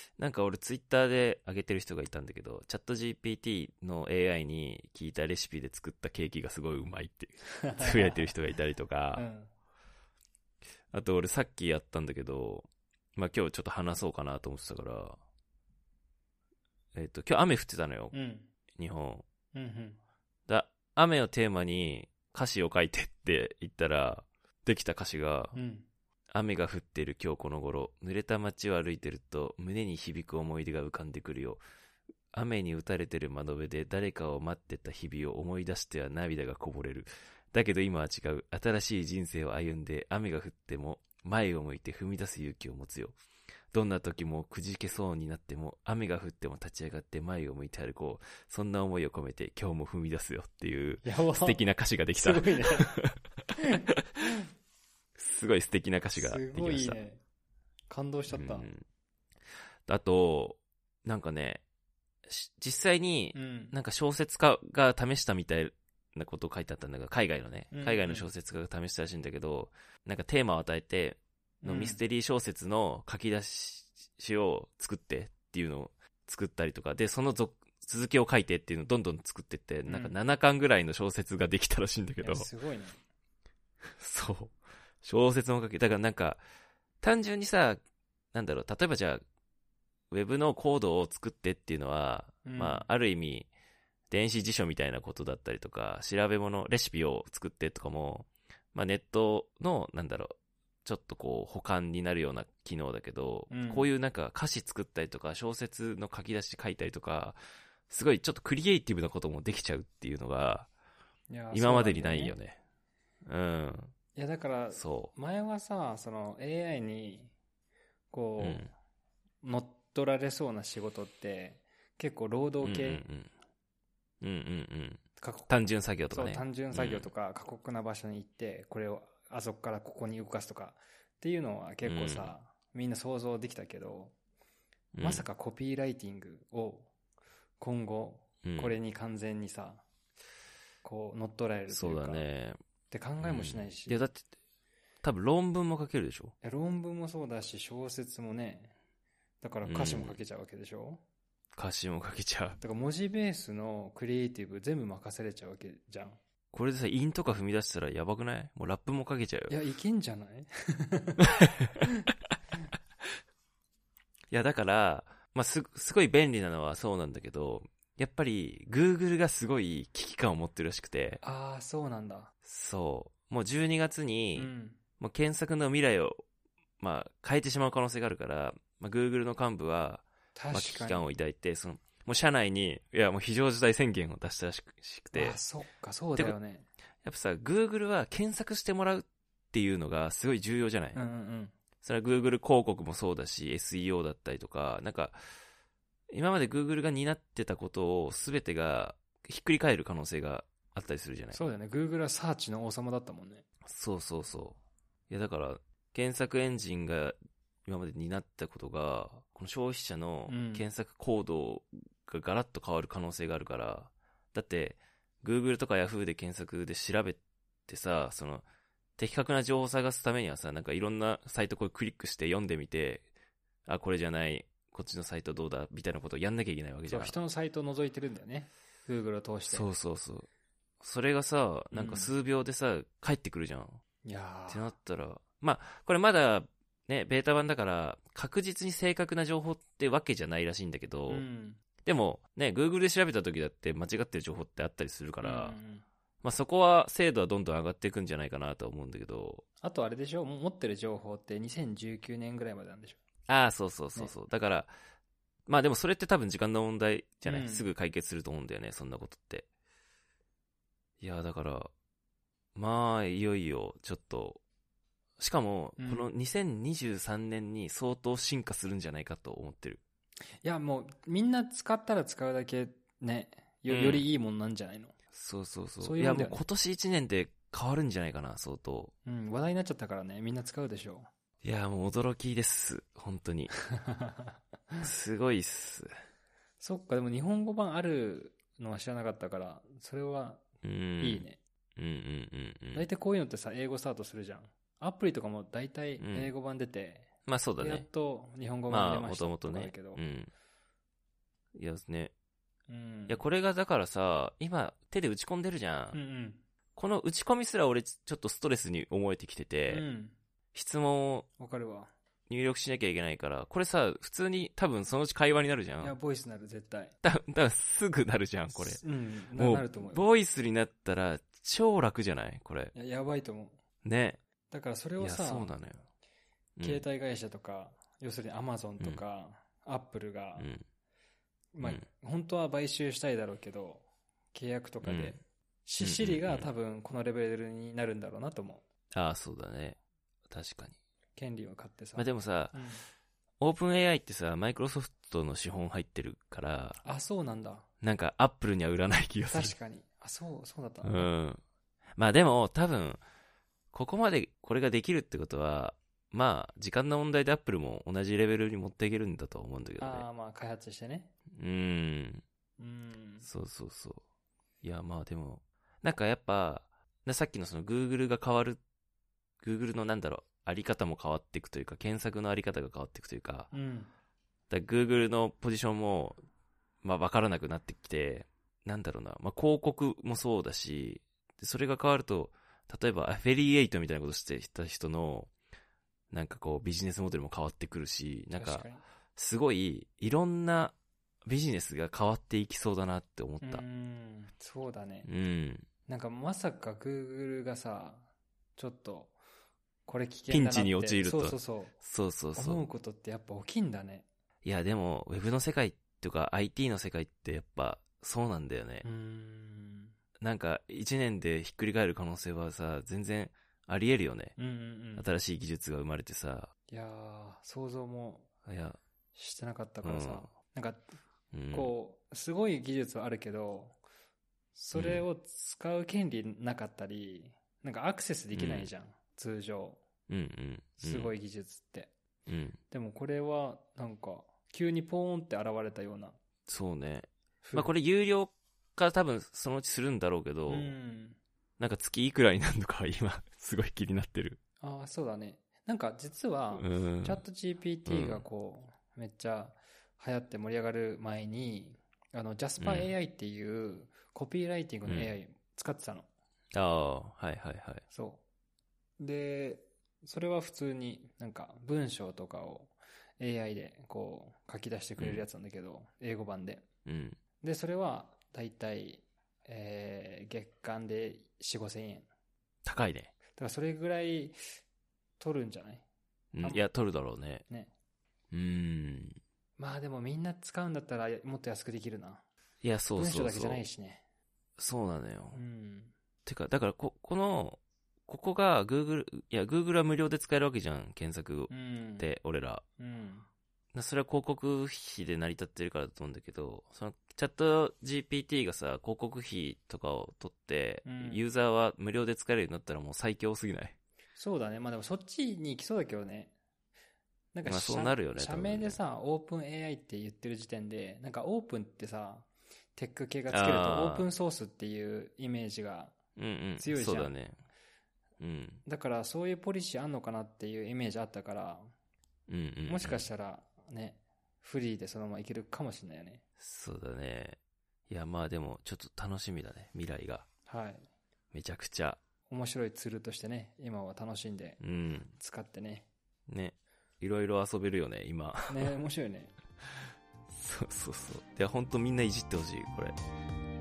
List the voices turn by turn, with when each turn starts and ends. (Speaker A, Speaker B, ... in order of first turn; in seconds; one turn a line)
Speaker A: 0.2-9.2
Speaker B: 7.6-8.3
Speaker B: 9.1-9.5
Speaker A: 10.9-15.2
Speaker A: 16.9-18.1
Speaker B: 18.1-18.5
Speaker A: 18.8-19.2
Speaker B: 19.5-20.0
Speaker A: 20.5-25.6
Speaker B: 25.5-25.9
Speaker A: 26.3-31.6
Speaker A: 32.3-43.1
Speaker A: 43.7-53.2
Speaker B: 51.0-51.6
Speaker B: 52.1-52.9
Speaker B: 53.6-53.9
Speaker A: 55.1-57.0
Speaker B: 56.1-57.2
Speaker B: 57.9-58.7
Speaker A: 58.3-58.8
Speaker A: 59.9-61.6
Speaker A: 62.3-82.5
Speaker B: 63.3-63.7
Speaker B: 67.7-68.3
Speaker B: 71.6-72.0
Speaker B: 79.9-80.2
Speaker B: 82.2-83.0
Speaker A: 84.0-86.4
Speaker A: 87.0-87.8
Speaker A: 88.3-89.2
Speaker A: 90.1-93.5
Speaker B: 92.4-92.8
Speaker A: 94.1-107.4
Speaker B: 103.5-103.9
Speaker A: 107.9-110.7
Speaker B: 111.3-112.3
Speaker A: 111.5-112.6
Speaker A: 113.2-113.9
Speaker B: 114.1-117.3
Speaker A: 114.7-115.1
Speaker B: 118.1-118.7
Speaker A: 118.4-118.7
Speaker B: 119.4-123.0
Speaker A: 122.6-123.3
Speaker A: 124.2-127.1
Speaker B: 125.2-125.5
Speaker B: 126.1-134.1
Speaker A: 131.8-132.3
Speaker A: 134.9-135.2
Speaker B: 135.0-136.9
Speaker B: 137.6-139.8
Speaker A: 138.4-138.8
Speaker B: 140.8-142.2
Speaker A: 141.7-142.6
Speaker B: 142.9-144.0
Speaker A: 143.2-144.3
Speaker A: 145.0-146.3
Speaker B: 146.4-148.7
Speaker B: 149.4-151.0
Speaker A: 149.6-150.2
Speaker A: 151.5-152.6
Speaker B: 152.6-156.2
Speaker A: 156.5-159.5
Speaker B: 159.5-161.3
Speaker A: 161.4-161.7
Speaker B: 161.8-162.1
Speaker A: 164.3-171.2
Speaker B: 171.2-172.3
Speaker A: 172.4-176.2
Speaker B: 174.3-174.8
Speaker A: 176.8-185.4
Speaker B: 180.3-181.0
Speaker B: 185.1-186.7
Speaker A: 187.0-191.0
Speaker B: 190.9-191.5
Speaker A: 191.8-195.2
Speaker A: 196.1-201.4
Speaker B: 201.3-203.4
Speaker A: 203.7-204.6
Speaker A: 205.1-218.4
Speaker B: 210.3-210.7
Speaker A: 219.0-223.0
Speaker A: 223.7-227.2
Speaker B: 226.9-229.7
Speaker A: 229.5-230.3
Speaker A: 230.8-233.8
Speaker B: 231.7-232.1
Speaker B: 234.0-234.7
Speaker A: 234.5-241.2
Speaker B: 241.1-241.6
Speaker A: 241.8-245.6
Speaker B: 245.2-245.8
Speaker A: 246.2-249.4
Speaker B: 249.6-253.0
Speaker A: 253.3-254.7
Speaker A: 255.5-259.5
Speaker B: 257.2-257.7
Speaker A: 261.0-261.7
Speaker A: 262.5-264.4
Speaker A: 265.2-269.8
Speaker B: 265.8-266.1
Speaker B: 270.4-274.9
Speaker A: 273.7-274.1
Speaker A: 275.1-278.9
Speaker B: 275.8-276.4
Speaker B: 279.0-281.1
Speaker A: 281.4-283.5
Speaker B: 283.8-284.8
Speaker A: 284.8-285.9
Speaker B: 286.6-290.4
Speaker A: 290.6-291.2
Speaker B: 291.0-291.4
Speaker A: 291.8-292.9
Speaker B: 292.7-300.0
Speaker A: 296.0-296.3
Speaker A: 297.3-297.9
Speaker A: 298.7-300.3
Speaker A: 301.5-302.1
Speaker B: 302.7-303.2
Speaker A: 303.1-306.0
Speaker B: 305.9-306.4
Speaker A: 306.8-309.8
Speaker B: 309.7-310.1
Speaker A: 310.5-311.3
Speaker B: 311.4-311.9
Speaker A: 312.3-315.9
Speaker B: 315.8-316.9
Speaker A: 317.0-318.8
Speaker B: 318.5-320.0
Speaker A: 319.3-322.7
Speaker B: 322.7-323.6
Speaker A: 323.8-324.2
Speaker B: 324.5-325.5
Speaker A: 325.0-325.8
Speaker A: 326.6-326.8
Speaker B: 326.6-330.5
Speaker A: 330.4-330.6
Speaker B: 331.5-338.6
Speaker A: 334.8-335.2
Speaker A: 335.8-336.5
Speaker A: 338.9-339.8
Speaker A: 340.3-340.8
Speaker B: 341.1-342.8
Speaker A: 341.9-342.6
Speaker A: 343.4-346.8
Speaker B: 346.8-347.6
Speaker A: 347.8-349.5
Speaker B: 349.3-351.1
Speaker A: 350.8-351.4
Speaker A: 352.0-353.0
Speaker A: 353.7-360.1
Speaker B: 359.8-361.1
Speaker A: 361.4-362.2
Speaker B: 362.6-363.3
Speaker A: 363.2-364.0
Speaker A: 364.6-368.6
Speaker A: 369.4-373.5
Speaker B: 373.5-373.9
Speaker A: 374.5-376.2
Speaker A: 376.8-385.3
Speaker A: 386.1-390.7
Speaker B: 388.3-388.8
Speaker A: 391.2-393.6
Speaker B: 393.4-395.1
Speaker A: 395.0-395.7
Speaker B: 395.9-399.2
Speaker B: 399.9-401.7
Speaker A: 400.3-402.6
Speaker B: 402.3-404.1
Speaker A: 404.4-408.9
Speaker B: 408.8-409.9
Speaker A: 410.2-414.4
Speaker B: 414.4-415.1
Speaker A: 414.9-416.5
Speaker B: 416.7-418.3
Speaker A: 418.4-418.8
Speaker B: 419.1-420.9
Speaker A: 419.8-420.3
Speaker A: 421.3-421.7
Speaker B: 421.5-423.8
Speaker B: 424.5-429.8
Speaker A: 424.7-425.0
Speaker A: 428.3-428.7
Speaker A: 430.1-431.1
Speaker B: 430.8-431.9
Speaker A: 432.3-432.6
Speaker B: 432.7-436.1
Speaker A: 436.5-440.8
Speaker B: 437.4-437.7
Speaker B: 440.5-441.2
Speaker A: 441.6-444.4
Speaker B: 444.6-456.1
Speaker A: 446.5-447.2
Speaker A: 447.9-448.2
Speaker A: 452.6-452.9
Speaker A: 454.9-455.1
Speaker A: 456.5-457.8
Speaker B: 457.9-458.2
Speaker B: 459.0-466.6
Speaker A: 465.0-465.2
Speaker A: 466.9-467.2
Speaker B: 467.4-472.1
Speaker A: 472.6-473.1
Speaker B: 473.4-474.4
Speaker B: 475.2-475.8
Speaker A: 476.3-477.4
Speaker B: 476.4-476.7
Speaker A: 478.3-479.2
Speaker B: 479.6-482.2
Speaker A: 482.6-483.6
Speaker B: 482.9-484.0
Speaker A: 484.6-485.4
Speaker B: 485.3-485.9
Speaker A: 486.2-492.6
Speaker B: 491.5-492.1
Speaker B: 492.8-493.3
Speaker A: 493.7-503.7
Speaker B: 500.8-501.3
Speaker B: 504.1-506.3
Speaker B: 507.3-515.9
Speaker A: 507.4-508.8
Speaker A: 513.3-514.1
Speaker A: 516.2-517.4
Speaker B: 516.6-517.1
Speaker A: 518.2-518.6
Speaker B: 518.6-521.7
Speaker A: 522.3-523.0
Speaker B: 522.6-526.2
Speaker A: 526.4-530.2
Speaker B: 530.5-530.9
Speaker A: 531.3-532.0
Speaker B: 532.3-534.6
Speaker A: 534.6-535.1
Speaker B: 535.1-535.9
Speaker A: 536.3-538.7
Speaker B: 538.5-539.3
Speaker A: 540.3-543.0